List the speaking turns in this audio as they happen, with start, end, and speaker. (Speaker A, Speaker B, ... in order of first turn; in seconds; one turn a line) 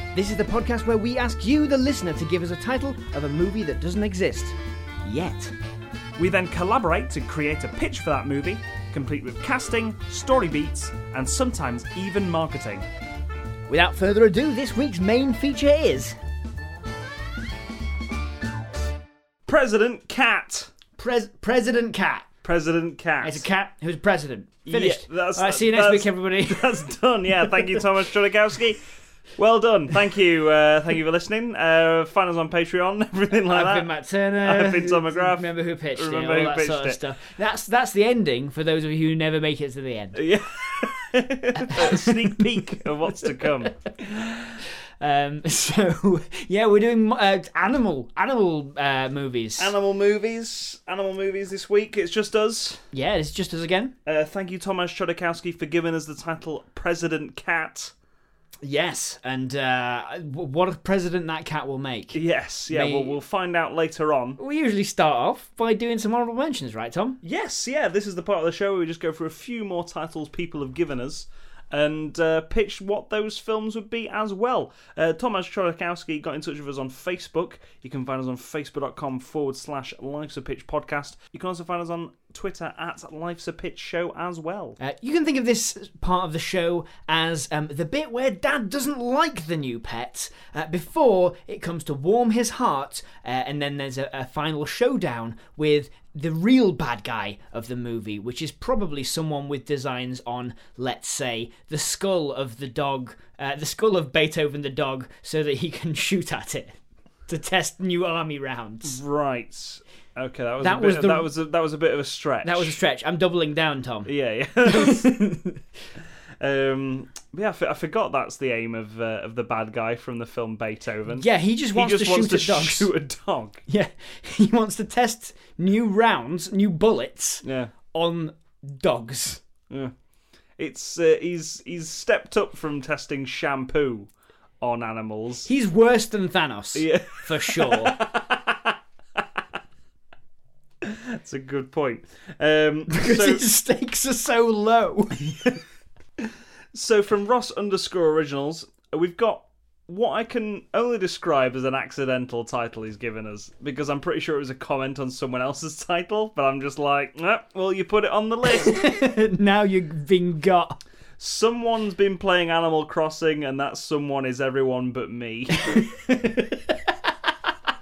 Speaker A: 0.1-5.5
Speaker B: 6.2-12.8
Speaker A: 13.7-16.1
Speaker B: 19.4-20.7
Speaker A: 21.0-22.3
Speaker B: 22.4-23.5
Speaker A: 23.2-26.8
Speaker B: 24.6-28.8
Speaker B: 29.4-33.9
Speaker A: 33.5-40.2
Speaker B: 34.4-37.0
Speaker B: 40.1-44.4
Speaker A: 41.6-43.9
Speaker A: 45.0-49.7
Speaker B: 49.6-52.8
Speaker A: 52.9-53.9
Speaker B: 54.0-57.9
Speaker A: 58.6-63.2
Speaker B: 62.1-64.4
Speaker A: 64.4-67.2
Speaker B: 67.2-84.8
Speaker A: 84.8-106.8
Speaker A: 107.3-109.0
Speaker B: 108.8-112.7
Speaker A: 110.6-111.3
Speaker A: 112.4-114.1
Speaker B: 114.0-115.1
Speaker A: 114.6-115.6
Speaker B: 116.4-123.6
Speaker A: 121.2-122.9
Speaker A: 123.7-129.4
Speaker B: 127.4-127.7
Speaker B: 130.6-135.5
Speaker A: 135.4-138.0
Speaker B: 136.7-139.2
Speaker B: 140.8-143.4
Speaker A: 142.9-145.6
Speaker B: 146.2-159.1
Speaker A: 158.4-160.8
Speaker B: 161.2-165.8
Speaker A: 165.5-166.9